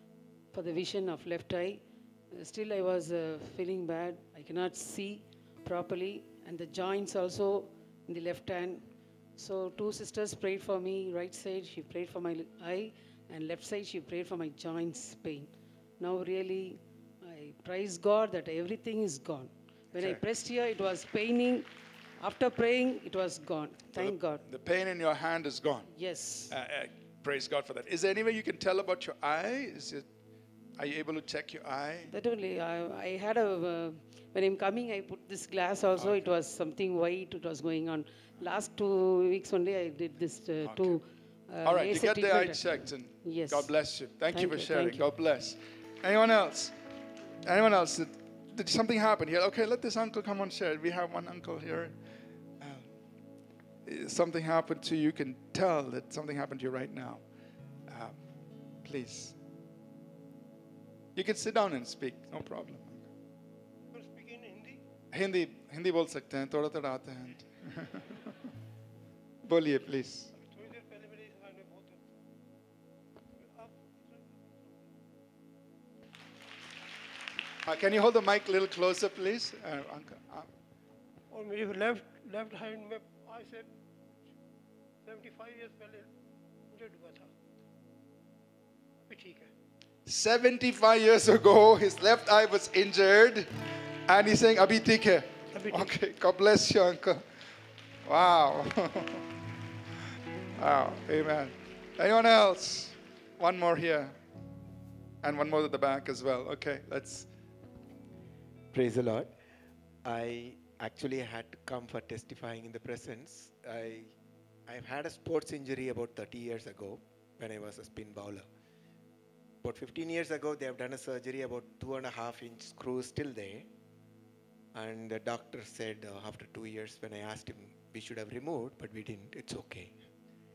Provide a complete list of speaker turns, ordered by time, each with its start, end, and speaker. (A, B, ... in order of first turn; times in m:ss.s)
0:00.5-0:21.7 A
0:19.9-0:20.2 B
0:22.2-0:24.4 A
0:23.9-0:25.9 B
0:25.9-0:26.5 A
0:26.5-0:30.1 B
0:30.8-0:32.1 B
0:32.1-0:43.7 A
0:36.0-0:36.3 B
0:40.6-0:41.0 B
0:41.6-0:46.7 B
0:44.3-0:45.1 A
0:47.4-0:51.9 B
0:52.6-0:52.9 B
0:53.8-0:57.2 B
0:57.9-0:58.2 B
0:58.8-0:59.4 B
1:01.1-1:03.0 B
1:03.9-1:04.8 C
1:05.1-1:08.2 B
1:09.4-1:10.3 B
1:10.3-1:12.0 C
1:13.4-1:14.8 C
1:17.6-1:20.5 B
1:21.3-1:23.7 C
1:25.0-1:26.1 C
1:26.7-1:27.3 C
1:29.0-1:29.5 C
1:30.0-1:33.5 B
1:34.1-1:37.2 B
1:35.5-1:35.9 C
1:38.0-1:39.2 B
1:40.6-1:44.1 B
1:45.2-1:47.3 B
1:48.7-1:49.3 D
1:50.0-1:54.1 D
1:54.7-1:58.4 D
1:59.6-2:03.7 D
2:04.7-2:09.9 D